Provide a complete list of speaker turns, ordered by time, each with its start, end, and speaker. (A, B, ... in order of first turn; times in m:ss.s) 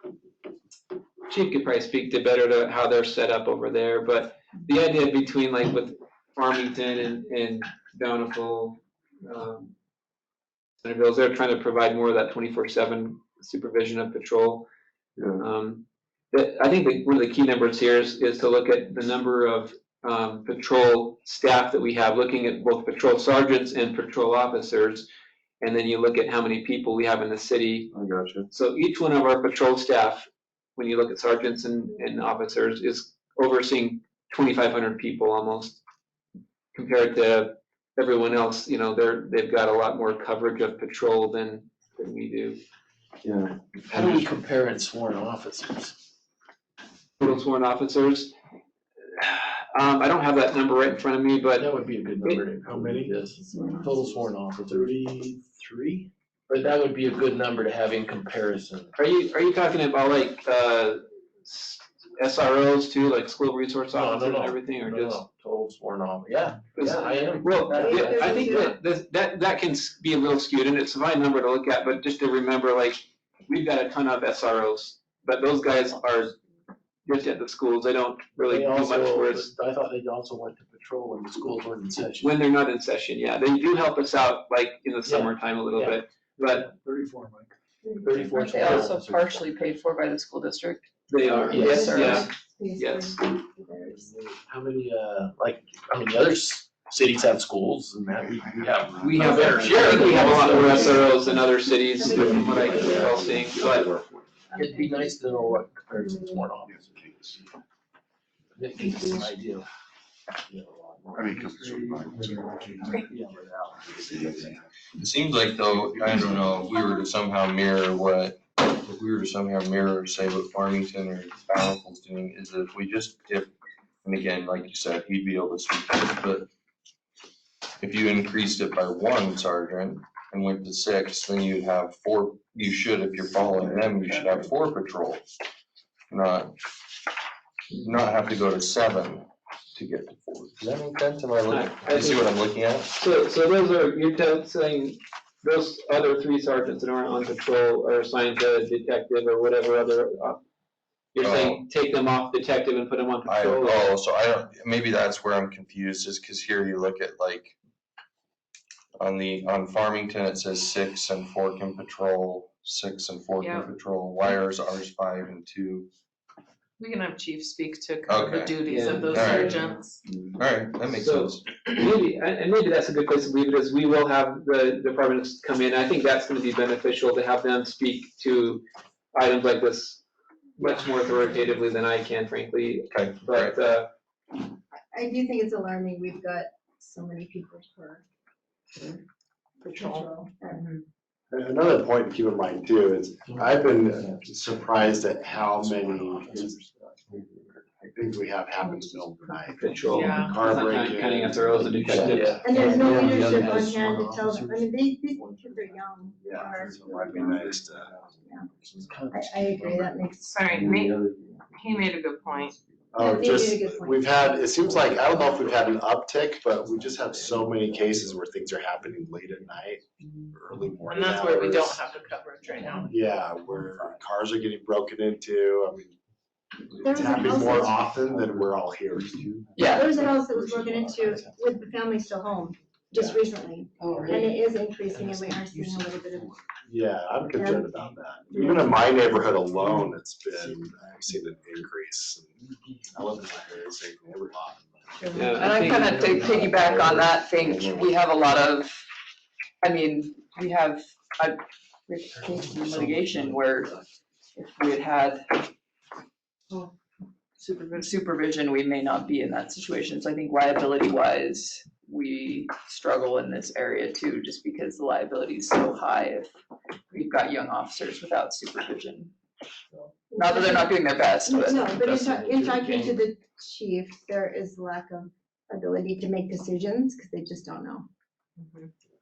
0:01.3-0:09.7 A
0:10.8-0:14.6 A
0:15.2-0:15.5 B
0:15.4-0:25.1 A
0:25.6-0:27.9 A
0:27.9-0:28.5 B
0:28.5-0:35.8 A
0:36.7-0:42.6 A
0:43.2-0:44.2 B
0:43.9-0:46.0 C
0:43.9-0:44.2 A
0:47.2-0:48.3 A
0:49.2-0:51.7 A
0:51.6-0:58.9 C
0:53.5-0:54.0 D
0:59.0-1:05.2 A
1:03.9-1:08.8 C
1:06.8-1:16.4 A
1:07.6-1:08.7 D
1:17.0-1:19.5 A
1:18.5-1:22.4 C
1:22.2-1:26.7 A
1:25.1-1:26.0 C
1:27.8-1:28.8 D
1:28.0-1:29.0 C
1:28.3-1:32.3 E
1:31.1-1:33.2 A
1:31.4-1:34.2 D
1:31.5-1:31.9 C
1:34.4-1:41.3 C
1:38.3-1:39.8 F
1:39.0-1:43.9 A
1:39.2-1:43.9 D
1:42.1-1:43.3 C
1:42.3-1:43.8 F
1:44.5-1:46.4 D
1:44.5-1:47.3 C
1:48.6-1:49.7 C
1:48.8-1:49.2 D
1:50.5-1:51.9 C
1:51.2-1:53.2 F
1:53.1-1:54.1 C
1:54.0-1:54.4 F
1:54.1-1:54.4 B
1:55.0-2:03.5 B
2:04.0-2:06.5 B
2:07.8-2:15.2 B
2:16.1-2:16.6 B
2:17.8-2:23.0 B
2:21.5-2:22.4 A
2:22.9-2:30.4 A
2:31.1-2:33.9 A
2:31.2-2:31.6 B
2:33.2-2:37.6 B
2:39.0-2:45.9 B
2:43.4-2:43.7 G
2:46.8-2:50.0 G
2:48.1-2:49.6 B
2:48.6-2:49.8 A
2:50.4-2:51.7 B
2:50.9-3:00.0 A
3:00.6-3:03.9 A
3:02.9-3:03.6 B
3:04.9-3:08.0 D
3:09.6-3:10.7 D
3:09.8-3:10.1 G
3:11.3-3:16.6 H
3:13.8-3:14.7 F
3:15.3-3:17.2 F
3:17.8-3:22.7 H
3:19.5-3:22.4 A
3:19.9-3:21.1 G
3:21.9-3:24.5 C
3:22.4-3:27.5 D
3:25.2-3:29.0 F
3:26.2-3:27.9 H
3:28.0-3:28.5 D
3:28.8-3:30.0 C
3:29.1-3:30.6 D
3:30.2-3:32.6 G
3:30.5-3:31.8 F
3:32.4-3:33.1 F
3:32.9-3:41.9 H
3:33.0-3:35.6 D
3:36.6-3:39.4 F
3:40.6-3:40.9 F
3:40.9-3:43.0 G
3:42.9-3:46.0 H
3:43.4-3:43.9 F
3:46.7-3:51.6 F
3:46.7-3:47.8 D
3:46.8-3:49.2 H
3:49.6-3:50.0 E
3:49.6-3:56.4 D
3:53.8-3:54.3 G
3:53.9-3:56.3 F
3:56.6-4:02.3 H
3:57.3-3:59.0 D
3:57.7-4:01.4 F
4:02.7-4:03.3 F
4:02.9-4:05.3 H
4:05.0-4:05.4 F
4:05.1-4:06.4 A
4:05.3-4:08.8 E
4:06.1-4:06.5 F
4:06.1-4:07.9 H
4:09.6-4:13.8 E
4:14.3-4:15.4 E
4:17.4-4:17.9 G
4:17.7-4:26.3 E
4:26.9-4:29.1 E
4:30.1-4:30.7 D
4:30.2-4:31.7 E
4:31.2-4:37.9 D
4:31.8-4:33.0 C
4:38.4-4:38.7 G